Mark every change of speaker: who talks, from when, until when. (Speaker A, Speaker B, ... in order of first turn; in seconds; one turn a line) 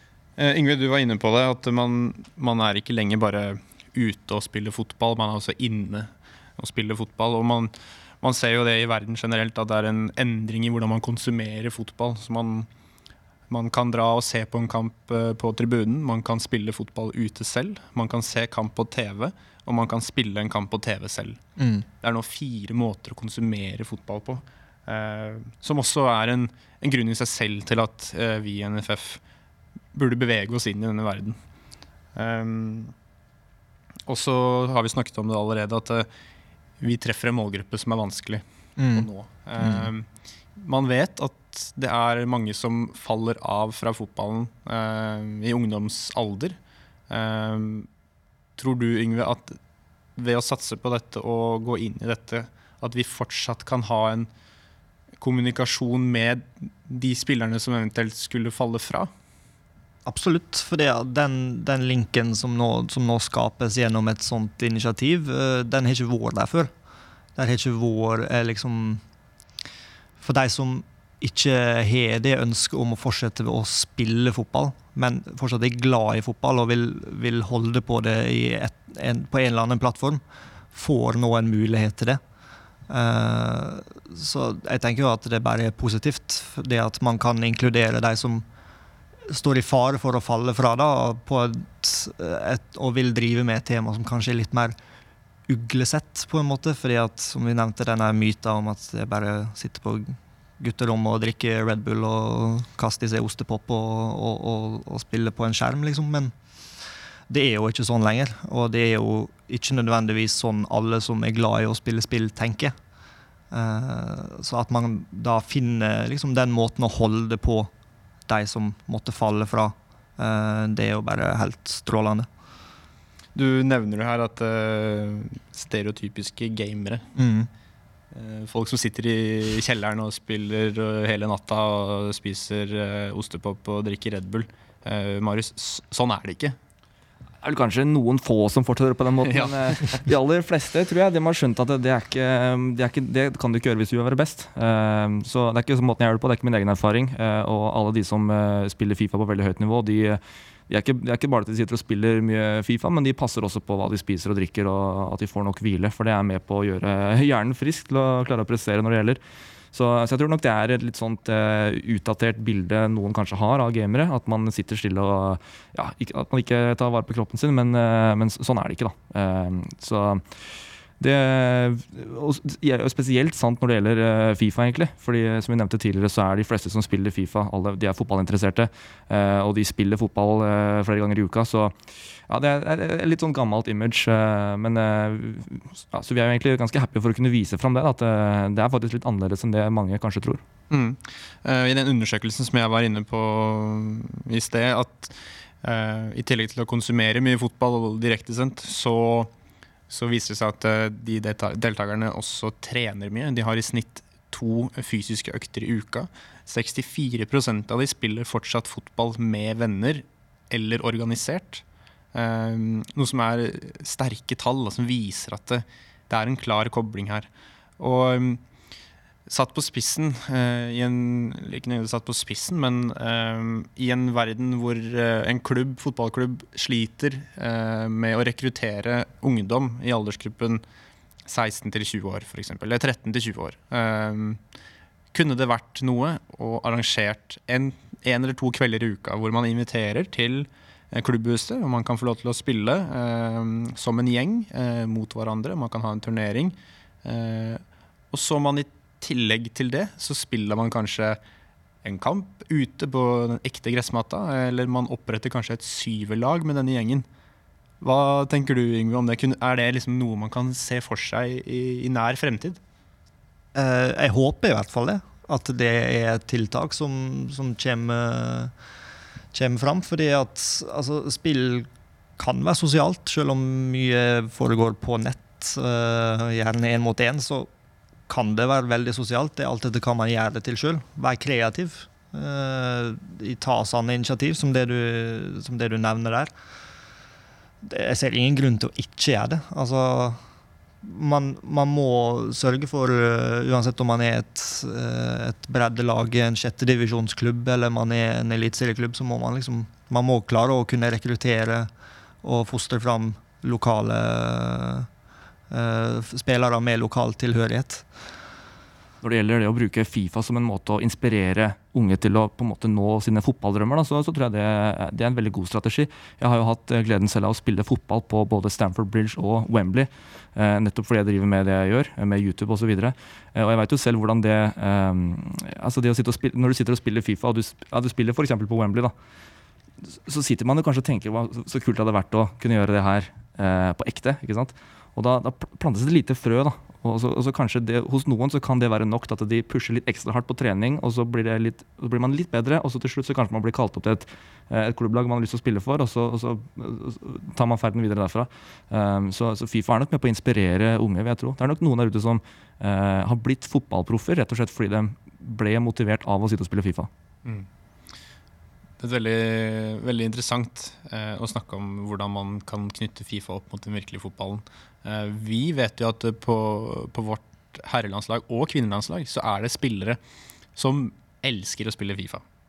Speaker A: 0.4-12.7
Speaker A: 13.5-21.4
Speaker B: 21.6-21.8
Speaker A: 22.0-29.2
Speaker A: 29.9-31.4
Speaker A: 32.1-32.9
Speaker A: 34.1-36.1
Speaker A: 36.8-46.6
Speaker B: 38.8-39.1
Speaker B: 39.6-39.9
Speaker A: 47.1-47.9
Speaker A: 48.6-49.6
Speaker A: 50.1-54.3
Speaker A: 55.2-59.1
Speaker B: 60.0-66.7
Speaker B: 67.3-69.0
Speaker B: 70.2-80.2
Speaker B: 80.7-82.2
Speaker B: 82.9-88.4
Speaker B: 89.3-94.8
Speaker B: 95.5-106.3
Speaker B: 107.3-112.7
Speaker B: 113.5-117.7
Speaker B: 118.3-122.3
Speaker A: 123.3-127.1
Speaker B: 127.2-127.5
Speaker A: 128.1-136.6
Speaker C: 137.4-159.2
Speaker A: 139.2-139.8
Speaker C: 159.7-170.2
Speaker C: 171.0-181.7
Speaker C: 182.3-190.4
Speaker A: 190.7-199.3
Speaker A: 199.9-217.3
Speaker A: 217.8-218.4
Speaker A: 219.3-230.6
Speaker A: 231.2-234.4
Speaker A: 235.1-247.6
Speaker A: 248.1-251.2
Speaker A: 251.8-257.1
Speaker A: 257.8-262.6
Speaker B: 263.5-268.5
Speaker B: 269.3-277.5
Speaker B: 278.1-286.3
Speaker B: 287.6-290.2
Speaker B: 290.8-301.7
Speaker B: 302.2-304.9
Speaker B: 305.5-307.9
Speaker C: 309.0-328.9
Speaker C: 329.9-356.9
Speaker A: 358.8-370.0
Speaker A: 370.6-372.2